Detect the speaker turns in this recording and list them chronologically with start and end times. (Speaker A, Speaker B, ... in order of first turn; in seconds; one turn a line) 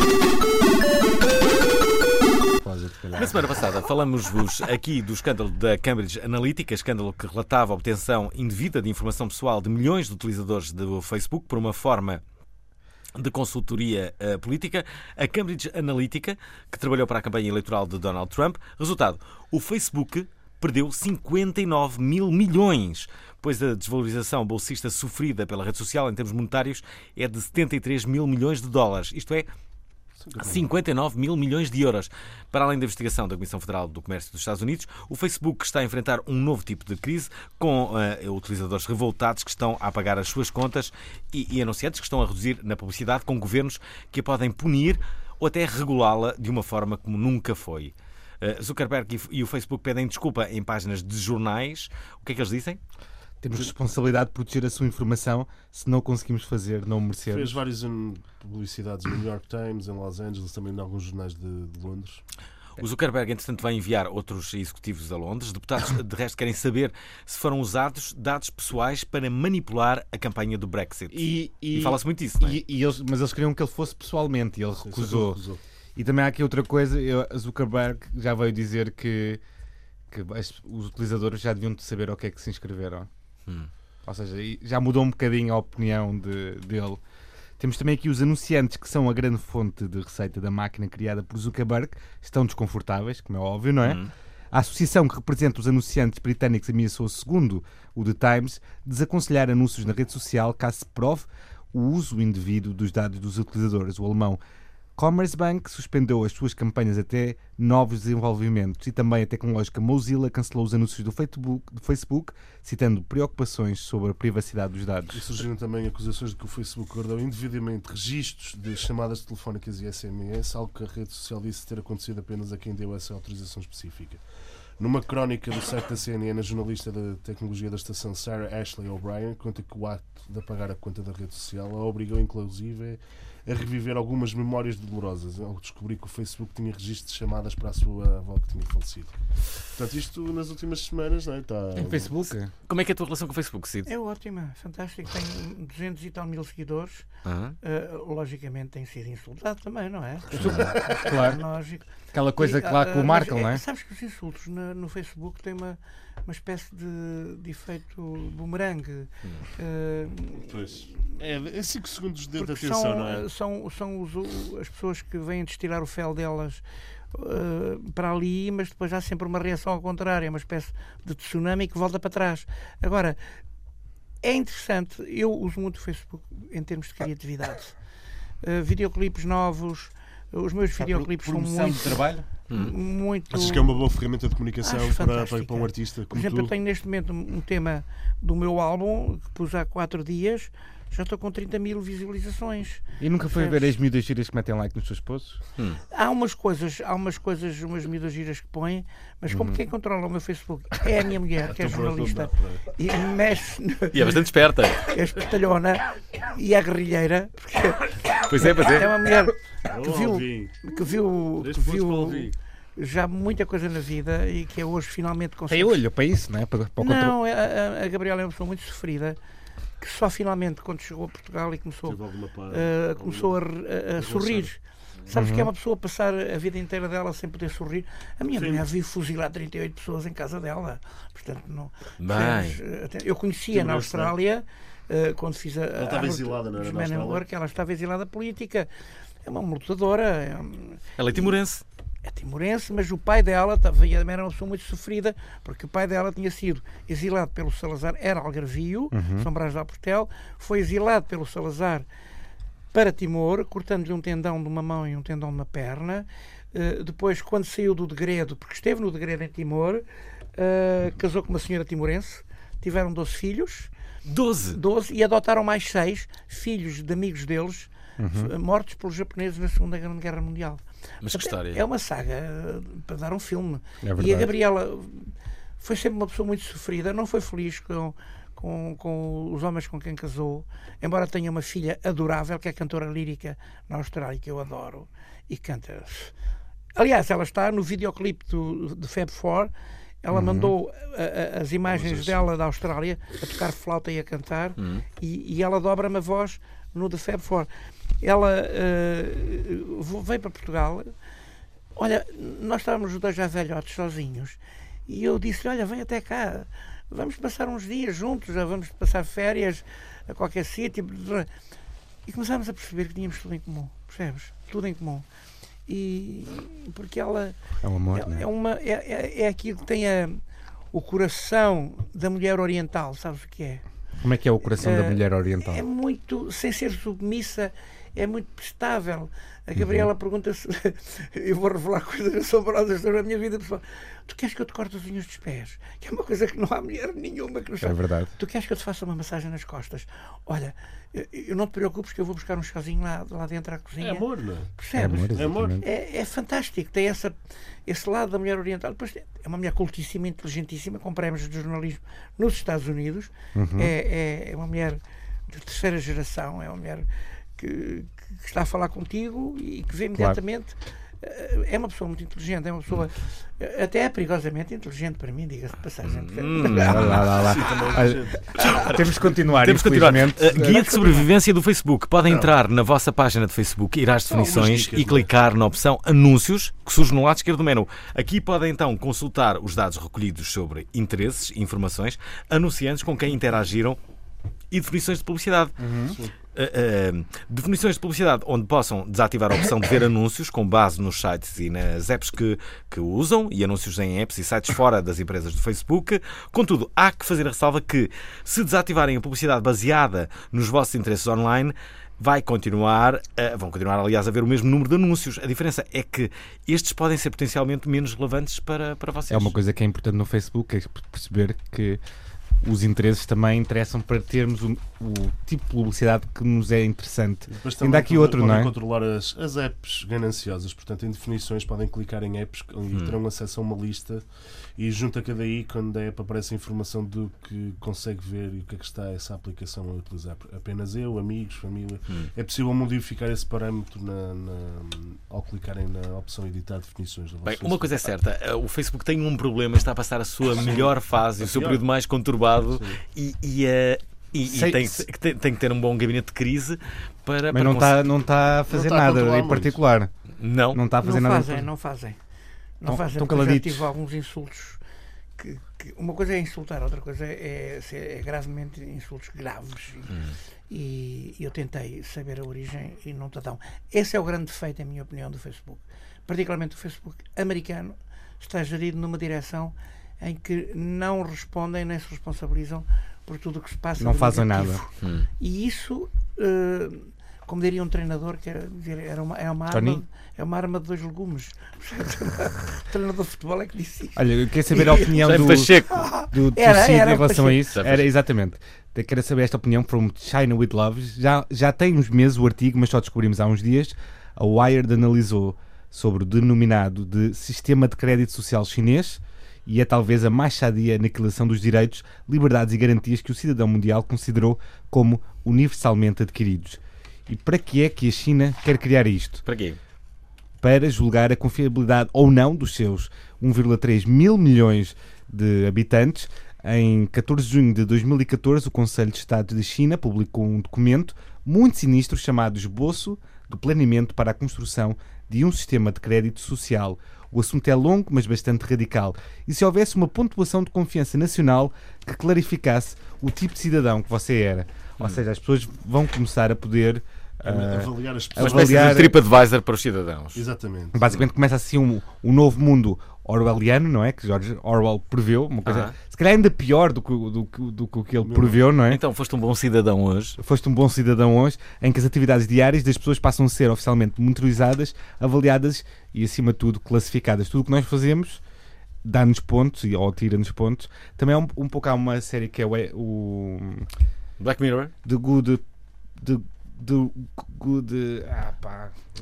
Speaker A: 2.6-3.5
Speaker B: 3.2-12.2
Speaker B: 13.2-29.5
Speaker C: 30.2-30.7
Speaker B: 30.4-52.8
Speaker A: 53.4-57.6
Speaker C: 57.3-62.2
Speaker B: 62.8-72.6
Speaker A: 71.1-75.4
Speaker C: 74.8-75.6
Speaker A: 76.0-79.4
Speaker A: 80.1-83.1
Speaker A: 84.1-87.0
Speaker A: 87.6-94.0
Speaker B: 93.8-94.1
Speaker A: 94.5-104.4
Speaker A: 105.0-115.2
Speaker C: 115.1-124.2
Speaker C: 124.8-139.2
Speaker C: 139.7-142.1
Speaker A: 141.8-142.5
Speaker B: 142.7-143.9
Speaker D: 143.9-147.1
Speaker B: 147.2-147.6
Speaker D: 147.6-160.5
Speaker A: 150.3-151.4
Speaker A: 152.1-153.6
Speaker C: 160.4-163.2
Speaker D: 162.4-173.2
Speaker D: 174.2-177.8
Speaker D: 178.4-183.8
Speaker B: 180.8-182.7
Speaker C: 183.3-186.5
Speaker D: 184.6-193.7
Speaker A: 193.0-195.4
Speaker D: 195.9-204.2
Speaker A: 199.3-199.6
Speaker C: 201.4-202.6
Speaker B: 203.9-204.9
Speaker D: 204.8-215.8
Speaker B: 208.3-209.0
Speaker C: 209.7-210.7
Speaker C: 211.4-212.3
Speaker A: 215.5-217.2
Speaker D: 216.8-219.2
Speaker D: 219.8-222.0
Speaker C: 221.8-223.4
Speaker D: 222.5-238.7
Speaker C: 224.0-224.5
Speaker A: 225.1-225.5
Speaker C: 228.3-228.7
Speaker B: 232.0-232.6
Speaker C: 233.5-234.2
Speaker C: 235.8-237.2
Speaker D: 239.2-241.4
Speaker B: 241.0-241.6
Speaker D: 242.0-251.9
Speaker A: 248.9-249.3
Speaker D: 252.7-259.8
Speaker D: 260.4-263.7
Speaker B: 264.1-264.6
Speaker D: 264.5-286.1
Speaker A: 268.0-268.3
Speaker B: 271.0-271.6
Speaker A: 273.8-274.3
Speaker D: 286.8-289.5
Speaker D: 290.0-297.5
Speaker A: 290.1-290.5
Speaker C: 291.7-292.2
Speaker B: 294.6-294.9
Speaker D: 298.0-300.9
Speaker D: 301.8-311.3
Speaker D: 312.1-315.1
Speaker D: 315.7-317.4
Speaker A: 317.6-318.3
Speaker D: 317.9-320.2
Speaker D: 320.7-323.6
Speaker A: 324.0-325.6
Speaker D: 324.5-347.2
Speaker A: 329.6-329.9
Speaker A: 337.6-338.1
Speaker C: 343.8-344.5
Speaker A: 344.8-345.7
Speaker C: 345.1-345.6
Speaker D: 347.7-356.9
Speaker A: 353.4-353.7
Speaker D: 357.4-367.0
Speaker B: 365.8-367.2
Speaker A: 366.4-370.6
Speaker C: 367.1-368.3
Speaker B: 368.4-383.8
Speaker D: 370.3-371.1
Speaker C: 372.1-372.3
Speaker C: 374.1-375.1
Speaker B: 384.5-385.6
Speaker A: 385.6-386.0
Speaker B: 386.3-409.3
Speaker A: 409.1-411.8
Speaker A: 412.4-418.5
Speaker C: 417.3-424.0
Speaker B: 422.7-423.0
Speaker C: 424.6-437.8
Speaker B: 437.2-447.8
Speaker C: 440.3-441.6
Speaker C: 442.5-442.8
Speaker A: 444.2-444.9
Speaker A: 447.3-449.9
Speaker C: 448.5-449.6
Speaker B: 450.2-450.6
Speaker A: 450.5-451.5
Speaker D: 450.8-452.0
Speaker D: 452.6-454.6
Speaker A: 452.7-453.7
Speaker D: 455.2-487.5
Speaker A: 473.8-474.6
Speaker B: 474.8-475.1
Speaker A: 479.5-479.8
Speaker A: 484.0-509.2
Speaker B: 484.9-485.9
Speaker B: 487.5-487.9
Speaker B: 509.2-509.6
Speaker A: 510.4-539.0
Speaker C: 537.2-539.0
Speaker B: 538.2-540.2
Speaker C: 540.1-540.8
Speaker A: 540.7-548.8
Speaker B: 545.5-545.8
Speaker C: 548.0-548.4
Speaker B: 548.7-550.2
Speaker A: 550.2-558.2
Speaker A: 558.8-563.7
Speaker B: 564.2-564.7
Speaker A: 564.9-565.4
Speaker A: 566.0-568.7